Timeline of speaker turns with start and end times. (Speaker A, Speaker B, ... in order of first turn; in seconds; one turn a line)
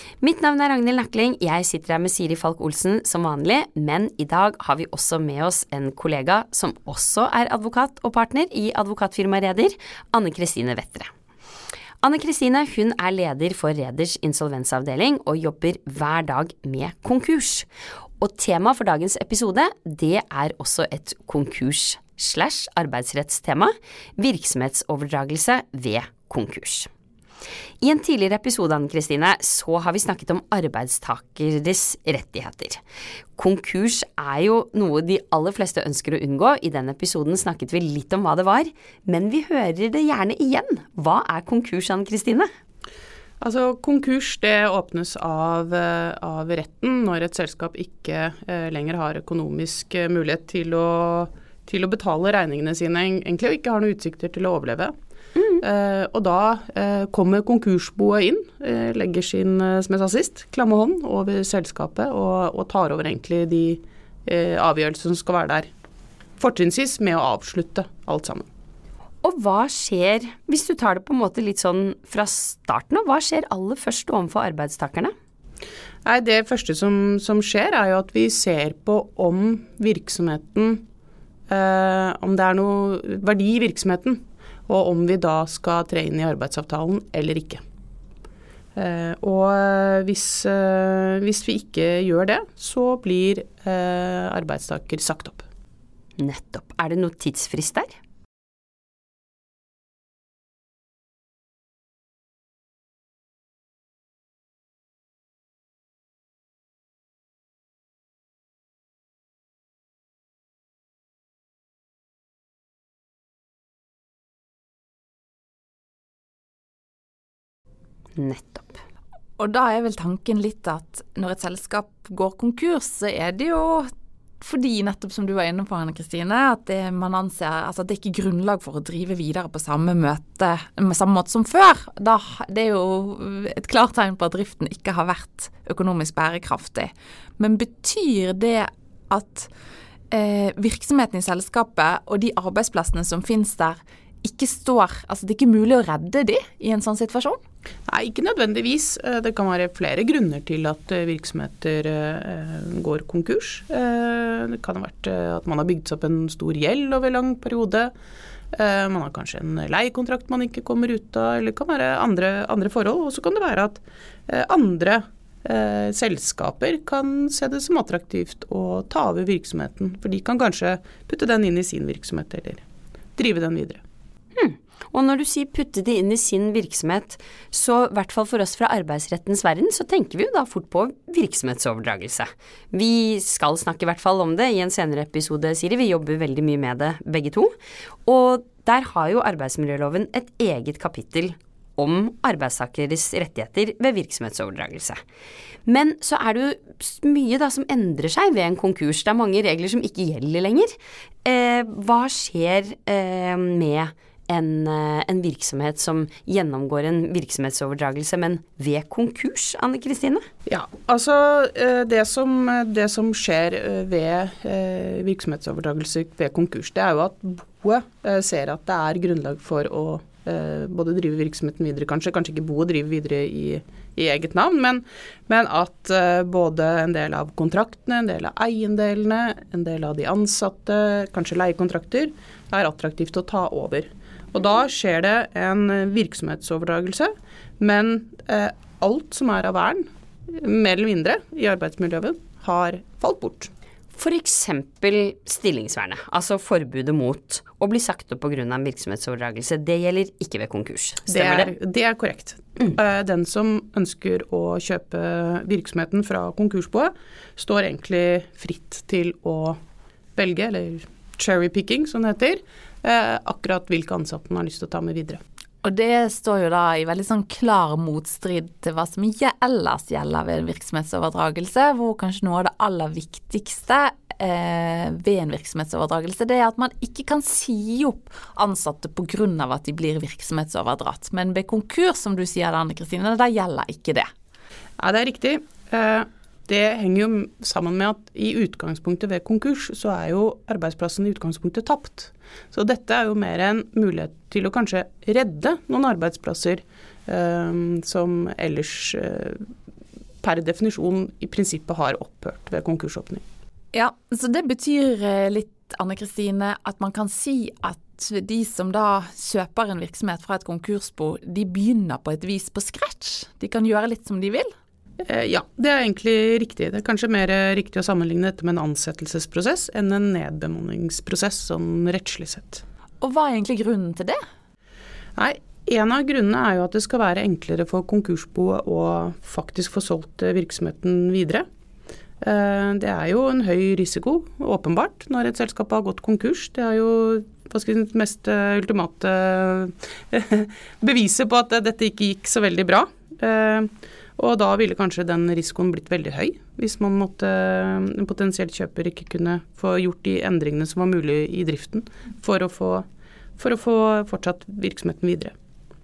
Speaker A: 0.2-11.1
Speaker A: 12.0-17.7
Speaker A: 18.2-26.9
Speaker A: 27.8-32.8
Speaker A: 33.4-42.5
Speaker B: 43.4-54.9
Speaker A: 55.4-55.6
Speaker B: 55.6-65.7
Speaker B: 66.4-68.5
Speaker A: 69.2-75.1
Speaker B: 76.0-80.8
Speaker B: 81.5-87.6
Speaker B: 88.7-95.5
Speaker A: 96.2-97.9
Speaker A: 118.2-118.8
Speaker C: 119.4-123.9
Speaker C: 124.4-139.5
Speaker C: 140.1-147.4
Speaker B: 147.9-157.9
Speaker B: 158.5-172.6
Speaker B: 173.2-173.8
Speaker A: 174.3-187.5
Speaker A: 188.1-195.0
Speaker A: 195.7-200.7
Speaker A: 201.2-210.2
Speaker B: 210.5-243.5
Speaker A: 243.9-251.5
Speaker B: 251.1-259.6
Speaker B: 260.1-265.2
Speaker C: 265.6-284.1
Speaker B: 284.8-299.4
Speaker B: 300.2-303.2
Speaker C: 303.7-314.5
Speaker B: 315.0-322.6
Speaker C: 323.0-324.2
Speaker B: 325.1-331.4
Speaker B: 332.2-352.9
Speaker B: 353.4-355.3